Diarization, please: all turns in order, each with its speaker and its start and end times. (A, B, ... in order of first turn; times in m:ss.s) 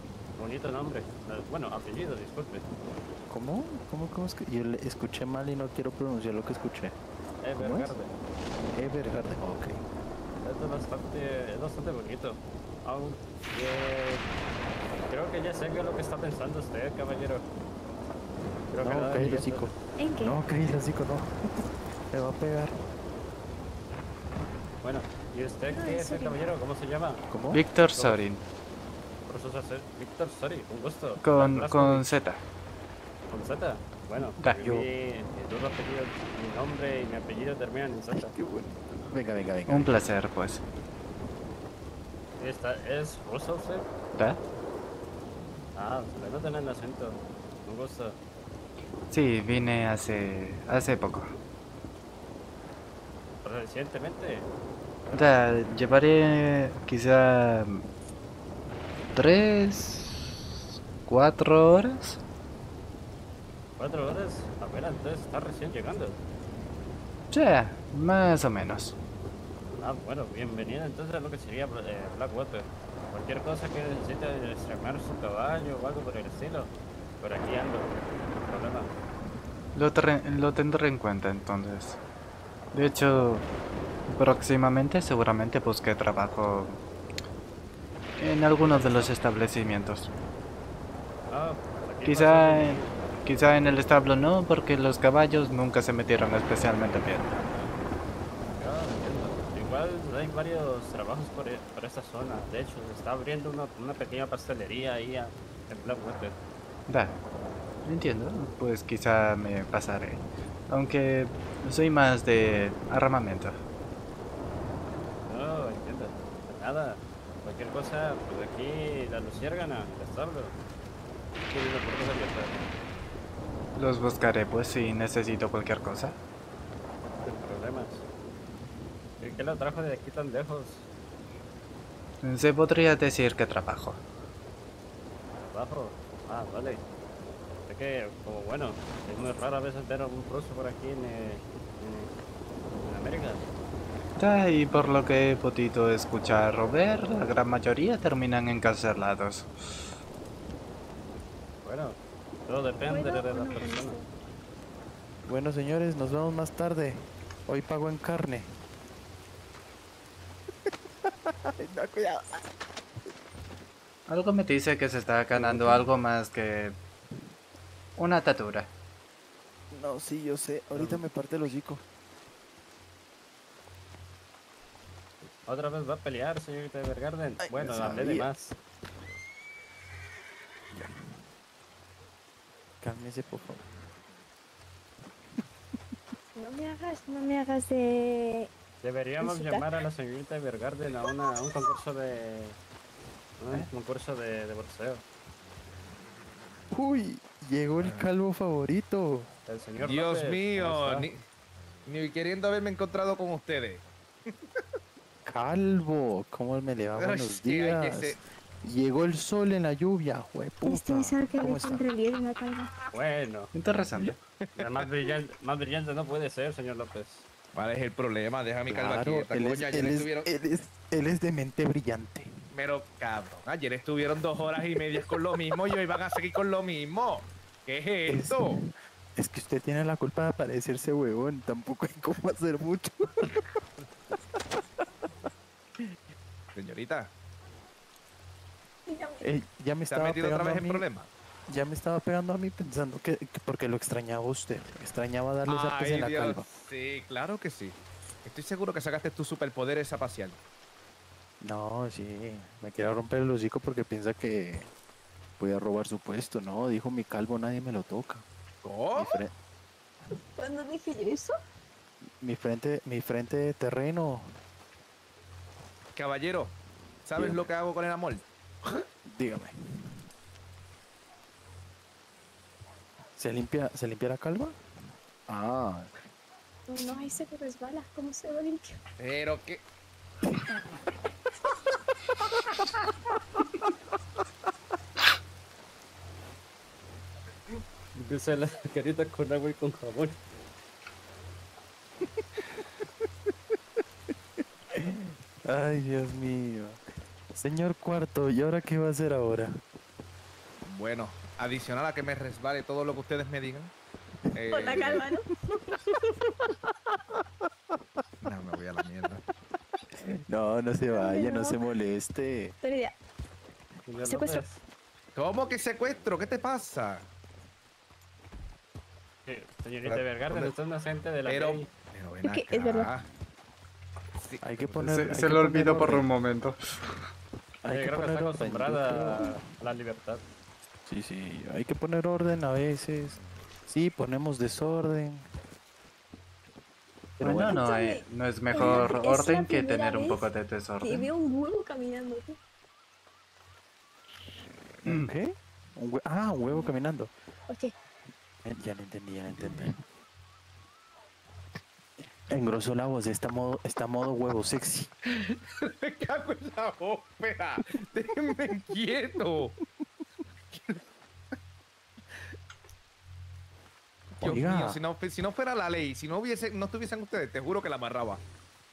0:00.4-0:02.7 A
0:03.3-0:07.0 B
0:07.4-0:08.2 A
0:07.6-0:07.9 B
0:08.7-0:09.8 B
0:10.4-0:14.3 A
0:15.0-0:17.4 A
0:18.7-0:19.7 A
0:18.8-0:22.8 B
0:20.0-0:20.3 C
0:24.8-0:27.2 A
0:25.7-0:26.3 C
0:27.3-0:27.6 B
0:27.5-0:28.4 D
0:28.0-0:28.2 A
0:29.2-0:32.1 A
0:31.2-0:32.4 D
0:33.3-0:38.3 A
0:34.6-0:34.9 B
0:38.1-0:40.0 B
0:39.7-0:40.6 D
0:42.4-0:43.9 A
0:45.7-0:48.2 A
0:49.1-0:51.3 D
0:53.4-0:54.5 A
0:55.0-0:55.3 A
0:55.1-0:57.8 D
0:59.1-1:00.4 D
1:01.0-1:02.2 D
1:03.8-1:06.2 A
1:07.3-1:09.0 D
1:09.7-1:18.9 A
1:19.7-1:22.0 D
1:22.7-1:23.4 D
1:24.1-1:26.8 D
1:28.2-1:30.1 D
1:28.6-1:29.1 A
1:31.3-1:33.2 A
1:32.0-1:37.4 D
1:37.3-1:37.7 A
1:38.5-1:46.4 A
1:46.9-1:47.2 D
1:47.8-1:53.6 D
1:55.2-2:00.6 A
2:01.5-2:02.6 A
2:03.7-2:06.2 D
2:07.2-2:08.0 A
2:09.2-2:10.9 A
2:12.2-2:14.0 D
2:15.4-2:16.8 A
2:17.7-2:22.1 A
2:22.7-2:23.4 A
2:24.2-2:29.5 D
2:31.6-2:34.0 A
2:32.9-2:34.1 C
2:35.2-2:38.6 B
2:41.0-2:42.4 B
2:44.1-2:46.8 D
2:45.3-2:45.9 B
2:48.0-2:48.7 D
2:49.7-2:51.8 B
2:50.7-2:51.0 A
2:55.4-2:58.6 A
2:57.4-2:58.3 B
3:00.7-3:01.2 B
3:02.8-3:03.7 B
3:06.3-3:08.5 C
3:08.8-3:12.6 A
3:09.2-3:09.7 C
3:13.4-3:15.0 A
3:16.7-3:19.3 B
3:17.8-3:18.1 E
3:19.5-3:21.1 A
3:19.8-3:21.2 E
3:21.8-3:24.6 E
3:25.3-3:31.8 B
3:26.9-3:28.2 E
3:30.6-3:32.7 C
3:32.9-3:34.1 A
3:33.5-3:34.2 D
3:34.1-3:34.9 E
3:34.6-3:37.3 A
3:37.5-3:40.3 E
3:38.7-3:42.3 B
3:42.5-3:48.6 E
3:48.1-3:53.4 B
3:56.5-3:57.1 E
3:58.9-3:59.2 C
3:59.2-4:00.8 B
3:59.9-4:01.1 E
4:01.5-4:06.4 B
4:05.4-4:10.4 E
4:11.4-4:14.7 B
4:15.4-4:18.2 B
4:18.6-4:19.2 E
4:18.9-4:19.3 B
4:20.4-4:21.3 C
4:22.2-4:24.4 B
4:25.9-4:28.2 E
4:27.2-4:27.5 B
4:29.0-4:29.9 B
4:33.2-4:34.6 B
4:35.3-4:35.9 B
4:36.7-4:38.8 C
4:39.0-4:39.6 E
4:40.2-4:40.6 B
4:47.9-4:50.2 A
4:54.7-4:56.8 B
4:57.3-4:59.6 B
5:00.6-5:03.7 E
5:04.3-5:05.1 E
5:04.6-5:05.3 C
5:04.7-5:05.0 B
5:08.2-5:09.2 E
5:10.0-5:12.6 B
5:10.9-5:11.5 C
5:12.6-5:13.0 C
5:13.9-5:14.6 A
5:14.1-5:14.4 C
5:15.1-5:17.1 E
5:19.2-5:21.7 A
5:19.9-5:20.4 B
5:21.2-5:23.1 E
5:22.3-5:22.8 C
5:24.2-5:25.0 E
5:24.4-5:26.1 B
5:24.8-5:26.6 D
5:27.6-5:29.4 B
5:27.7-5:30.2 A
5:30.8-5:35.3 B
5:37.2-5:37.6 B
5:37.2-5:41.1 D
5:37.5-5:40.3 C
5:38.6-5:39.0 B
5:40.8-5:42.4 C
5:44.8-5:47.1 B
5:48.4-5:49.8 B
5:49.4-5:49.7 E
5:52.3-5:54.9 B
5:55.3-5:59.5 E
6:04.2-6:04.8 B
6:04.2-6:08.2 E